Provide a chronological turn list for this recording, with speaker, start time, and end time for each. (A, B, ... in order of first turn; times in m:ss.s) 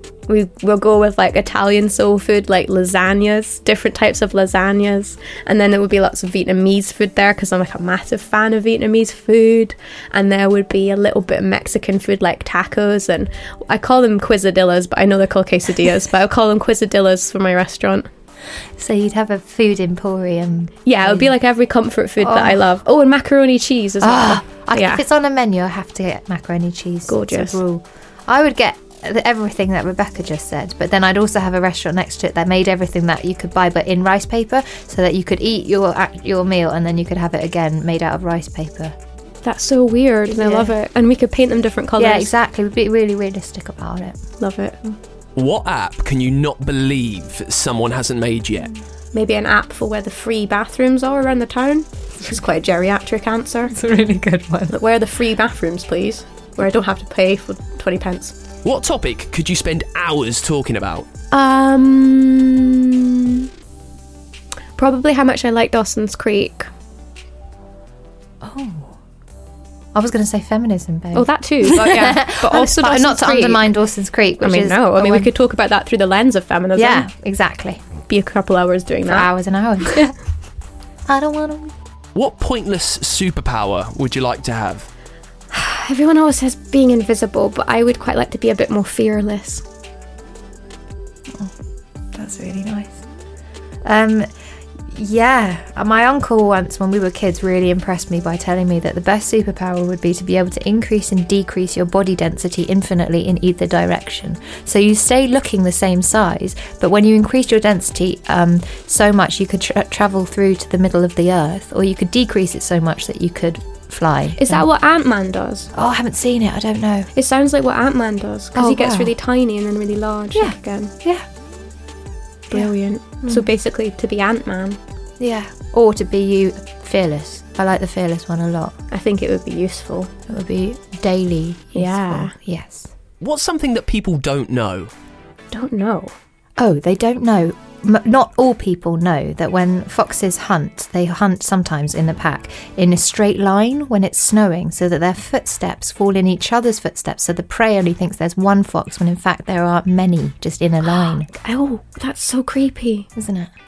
0:00.3-0:18.1 A
0:18.8-0:21.3 B
0:20.8-0:25.0 A
0:22.2-0:22.6 B
0:24.0-0:39.0 B
0:27.1-0:27.6 A
0:39.4-0:42.3 A
0:40.3-0:40.7 B
0:42.0-0:44.2 B
0:44.4-0:45.0 A
0:45.4-0:48.7 C
0:49.1-0:53.7 A
0:53.7-0:54.8 B
0:54.7-0:58.3 A
0:58.6-1:01.1 C
1:01.3-1:03.5 A
1:04.8-1:06.7 A
1:08.4-1:09.0 B
1:10.0-1:15.3 B
1:11.1-1:13.7 A
1:14.4-1:17.1 A
1:16.7-1:17.8 B
1:18.1-1:19.3 A
1:19.0-1:20.1 B
1:21.1-1:21.7 B
1:22.2-1:24.9 C
1:25.5-1:29.6 A
1:32.1-1:33.0 B
1:33.8-1:34.3 B
1:34.9-1:54.7 B
1:54.4-1:55.7 A
1:55.7-1:57.1 B
1:57.2-2:00.9 A
1:58.5-1:59.1 B
2:00.3-2:01.2 B
2:02.5-2:04.8 A
2:05.2-2:08.7 B
2:08.9-2:10.1 A
2:10.3-2:12.9 B
2:11.7-2:12.3 A
2:13.2-2:14.9 C
2:15.5-2:16.2 A
2:16.6-2:31.3 B
2:30.8-2:33.1 A
2:33.2-2:33.5 B